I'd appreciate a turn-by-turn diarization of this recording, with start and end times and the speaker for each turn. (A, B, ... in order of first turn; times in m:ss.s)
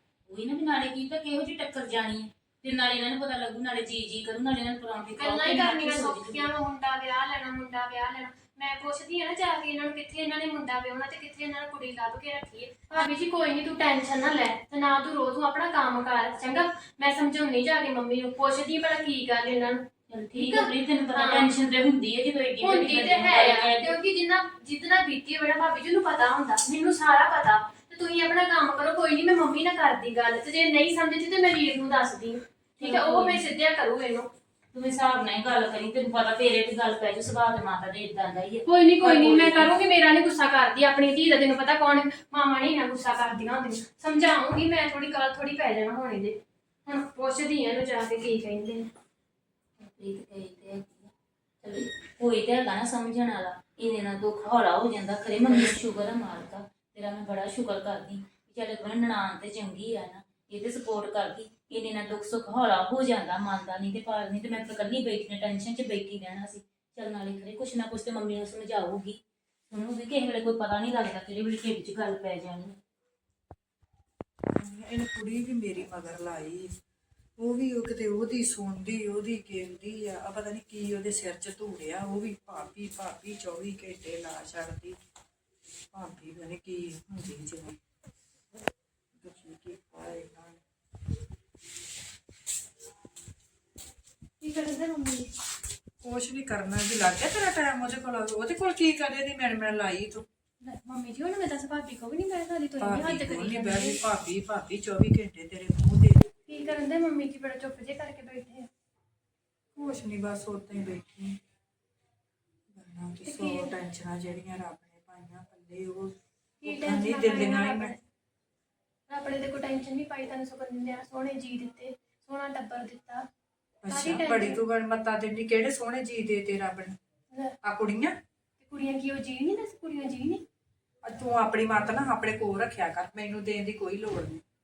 0:00.3-0:06.5 A
0:05.2-0:21.5 B
0:20.1-0:23.9 A
0:22.6-0:34.3 B
0:32.8-0:33.4 A
0:34.7-0:39.7 A
0:38.7-0:48.9 B
0:49.8-1:12.8 A
1:14.5-1:16.7 C
1:17.4-1:25.0 C
1:25.9-1:27.8 C
1:29.2-1:30.6 C
1:34.4-1:35.3 B
1:36.0-1:40.2 C
1:40.6-1:44.0 B
1:42.8-1:46.2 C
1:46.5-1:48.7 B
1:49.7-1:51.4 C
1:52.7-1:57.9 C
1:53.2-1:53.7 B
1:56.6-1:58.0 B
1:59.1-2:03.3 B
2:03.8-2:07.0 C
2:03.9-2:04.6 B
2:07.6-2:08.1 C
2:08.6-2:10.4 B
2:11.0-2:14.4 C